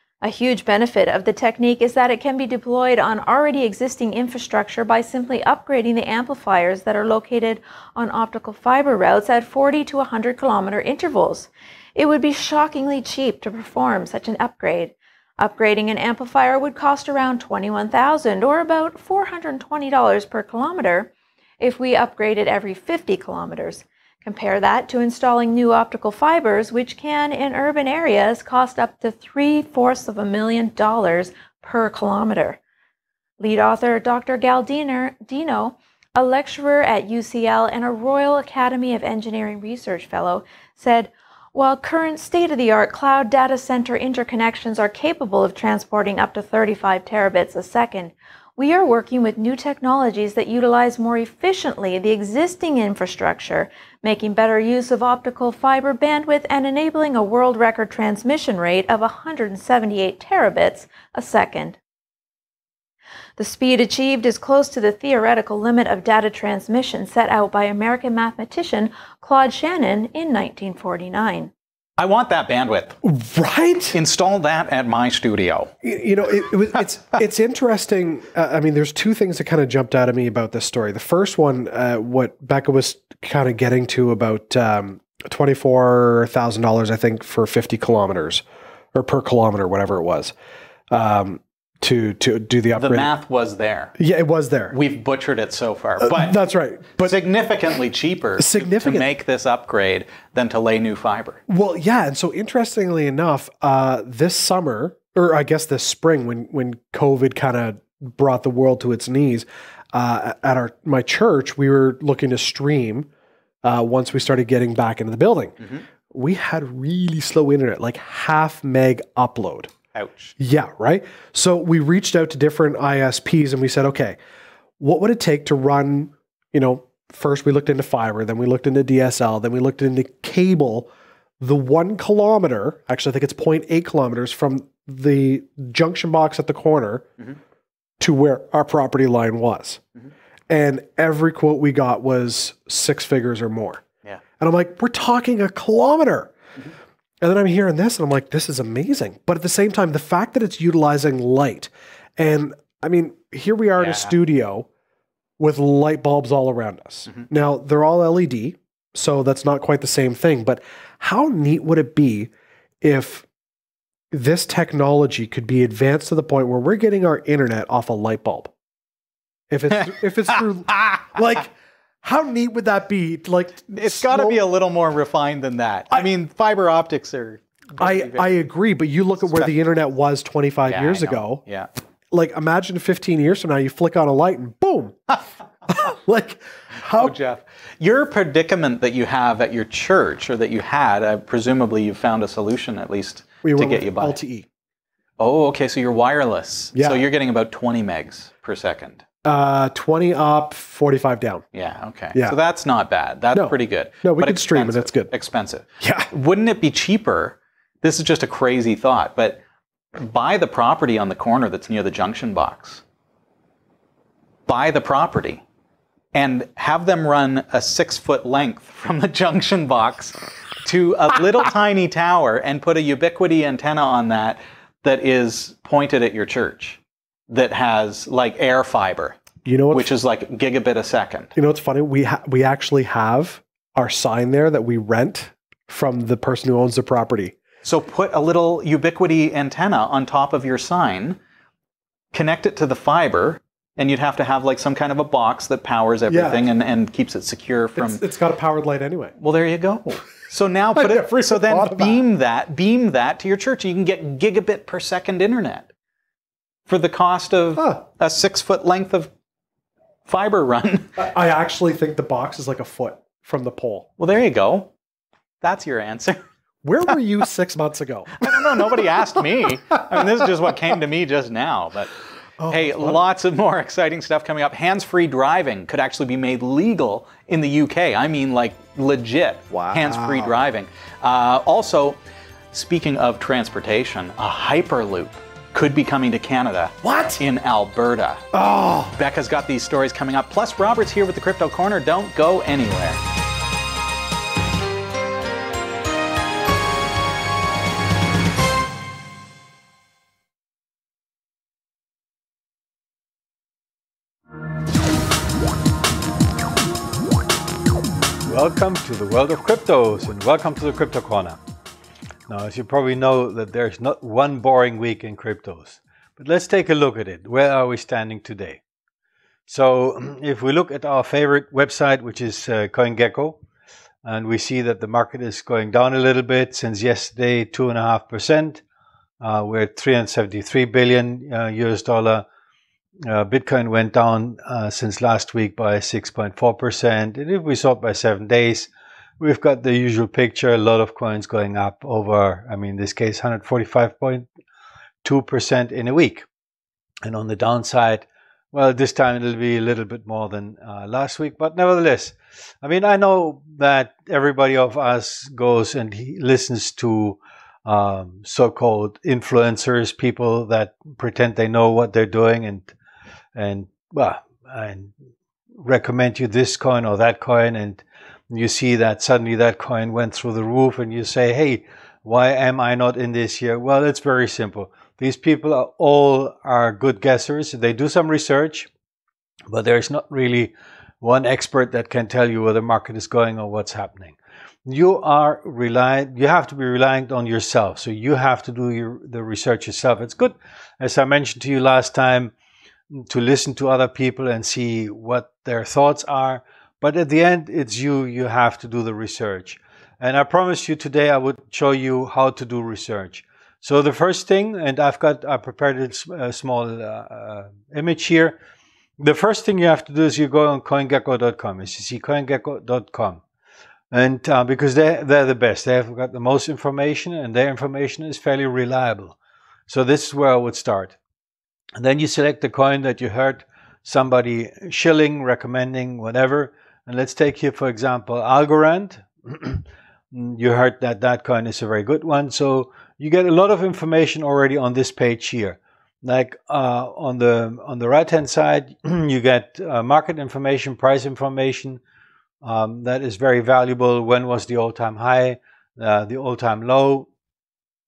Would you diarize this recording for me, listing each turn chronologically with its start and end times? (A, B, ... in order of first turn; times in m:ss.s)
0:00.2-0:32.6 A
0:33.4-1:01.8 A
1:03.4-1:11.5 A
1:12.0-1:13.0 B
1:13.0-1:14.0 C
1:13.9-1:15.7 B
1:15.8-1:28.4 C
1:28.9-1:30.3 C
1:30.9-1:33.1 C
1:32.8-1:34.0 B
1:34.0-1:34.8 C
1:34.7-1:36.4 B
1:36.0-1:37.2 C
1:37.0-1:41.4 B
1:38.4-1:39.1 C
1:41.5-1:53.1 C
1:53.6-1:59.7 C
2:00.0-2:00.3 B
2:00.4-2:04.2 C
2:04.8-2:17.1 C
2:18.0-2:19.8 C
2:20.5-2:23.8 C
2:24.4-2:26.3 C
2:27.2-2:34.7 C
2:33.8-2:34.2 B
2:35.4-2:42.3 C
2:42.8-2:43.3 C
2:44.1-2:48.5 C
2:49.5-2:51.5 C
2:50.7-2:51.1 B
2:52.0-2:54.4 C
2:53.7-2:58.4 B
2:57.8-3:01.4 C
2:59.2-2:59.5 B
3:00.6-3:01.7 B
3:02.1-3:07.2 C
3:06.9-3:14.2 B
3:13.4-3:14.5 C
3:15.2-3:19.0 B
3:16.7-3:17.1 C
3:19.2-3:21.4 C
3:21.5-3:29.4 B
3:23.3-3:25.1 C
3:25.8-3:26.1 C
3:30.0-3:32.8 B
3:34.5-3:35.4 B
3:36.1-3:49.2 B
3:49.4-3:49.9 C
3:49.7-3:51.3 B
3:51.4-3:57.4 C
3:57.6-4:01.2 B
4:02.1-4:08.0 B
4:06.1-4:06.5 C
4:07.8-4:09.2 C
4:09.2-4:15.7 B
4:10.8-4:12.0 C
4:16.7-4:19.1 B
4:17.6-4:17.8 C
4:20.1-4:21.0 B
4:21.0-4:23.9 C
4:24.0-4:24.7 B
4:25.4-4:26.2 B
4:26.6-4:28.6 C
4:28.2-4:32.0 B
4:32.4-4:33.0 C
4:32.5-4:42.0 B
4:39.5-4:40.4 C
4:42.5-4:48.3 B
4:46.8-4:47.2 C
4:48.3-4:49.0 C
4:48.9-4:53.0 B
5:08.2-5:11.4 D
5:12.3-5:18.6 D
5:19.5-5:23.4 D
5:24.0-5:28.6 D
5:29.2-5:32.2 D
5:33.1-5:44.3 D
5:45.0-5:46.2 D
5:47.0-6:02.7 D
6:03.4-6:04.9 D
6:05.6-6:18.7 D
6:19.5-6:32.3 D
6:32.9-6:48.4 D
6:49.0-6:53.2 D
6:53.9-6:59.2 D
6:59.7-7:01.0 D
7:01.8-7:21.8 D
7:22.4-7:27.1 D